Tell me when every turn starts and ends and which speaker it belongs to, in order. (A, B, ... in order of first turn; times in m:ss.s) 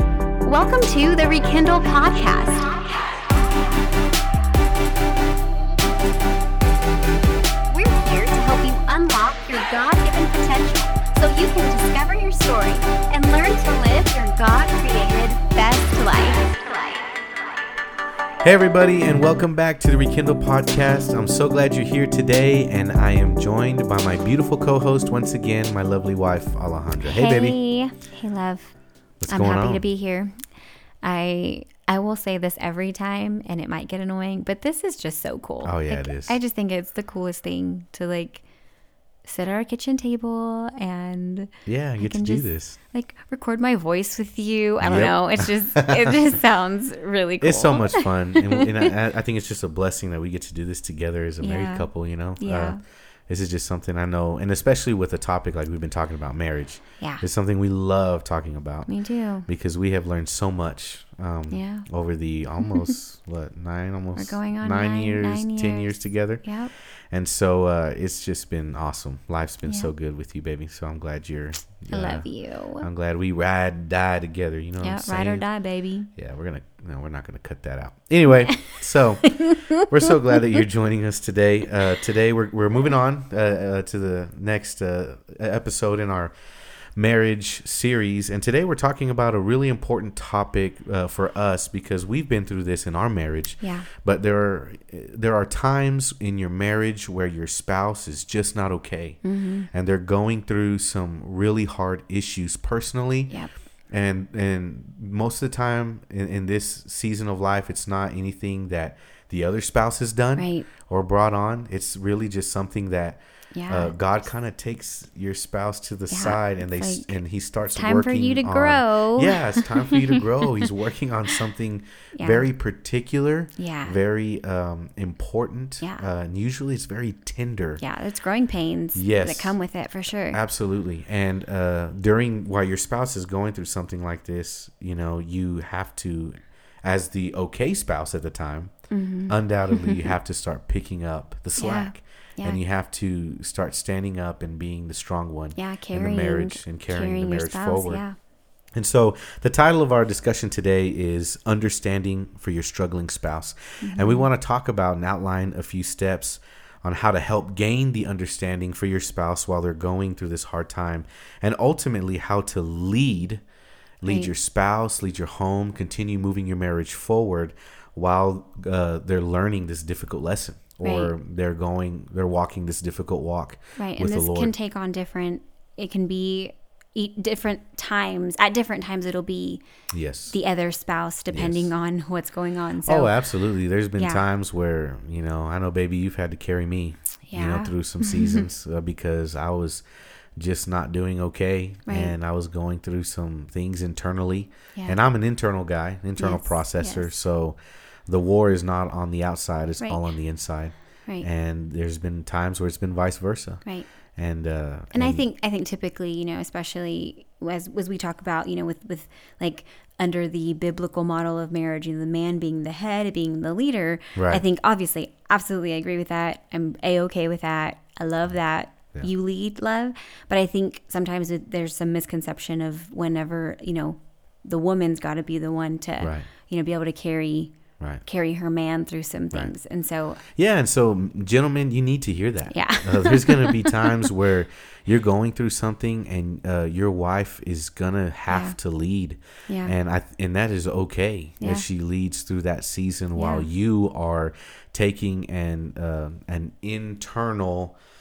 0:00.4-0:03.1 A
0:07.7-0:17.0 A
0:18.4-0:27.6 B
0:27.0-0:28.7 A
0:29.2-0:29.8 B
0:29.3-0:30.3 A
0:31.0-0:38.4 A
0:35.6-0:36.4 B
0:39.2-0:48.9 A
0:41.6-0:42.8 B
0:44.8-0:46.3 B
0:47.4-0:52.8 B
0:51.4-0:51.9 A
0:52.4-0:52.8 A
0:53.3-0:58.9 B
0:57.0-0:57.2 A
0:58.9-0:59.5 A
0:59.4-1:06.4 B
1:01.5-1:01.9 A
1:02.6-1:02.9 A
1:04.2-1:06.7 A
1:07.1-1:12.3 B
1:09.6-1:09.9 A
1:11.9-1:12.8 A
1:12.8-1:15.4 B
1:14.8-1:16.1 A
1:16.2-1:26.3 B
1:19.3-1:19.8 A
1:27.0-1:43.3 B
1:33.6-1:33.9 A
1:39.2-1:39.7 A
1:43.9-2:07.8 B
1:50.4-1:50.7 A
1:53.5-1:53.9 A
1:56.1-1:57.2 A
1:57.7-2:00.4 A
2:02.1-2:02.5 A
2:03.6-2:04.0 A
2:07.8-2:10.4 A
2:08.9-2:09.6 B
2:10.3-2:18.7 B
2:18.9-2:20.1 A
2:19.3-2:28.0 B
2:21.6-2:22.6 A
2:25.6-2:28.1 A
2:28.7-2:43.4 B
2:33.8-2:34.3 A
2:44.0-2:54.5 B
2:44.0-2:44.3 A
2:50.8-2:51.1 A
2:53.8-2:59.6 A
2:59.9-3:00.3 B
3:00.3-3:03.1 A
3:01.3-3:01.7 B
3:02.8-3:09.8 B
3:04.0-3:04.2 A
3:07.3-3:08.5 A
3:10.4-3:17.6 B
3:11.8-3:12.1 A
3:16.2-3:17.1 A
3:18.1-3:23.6 B
3:24.2-3:25.2 B
3:24.9-3:47.5 A
3:34.2-3:34.4 B
3:46.0-3:46.3 B
3:48.0-3:50.2 A
3:50.4-4:07.8 B
3:52.5-3:54.1 A
3:58.3-3:58.6 A
3:59.5-3:59.7 A
4:01.4-4:01.6 A
4:03.2-4:03.5 A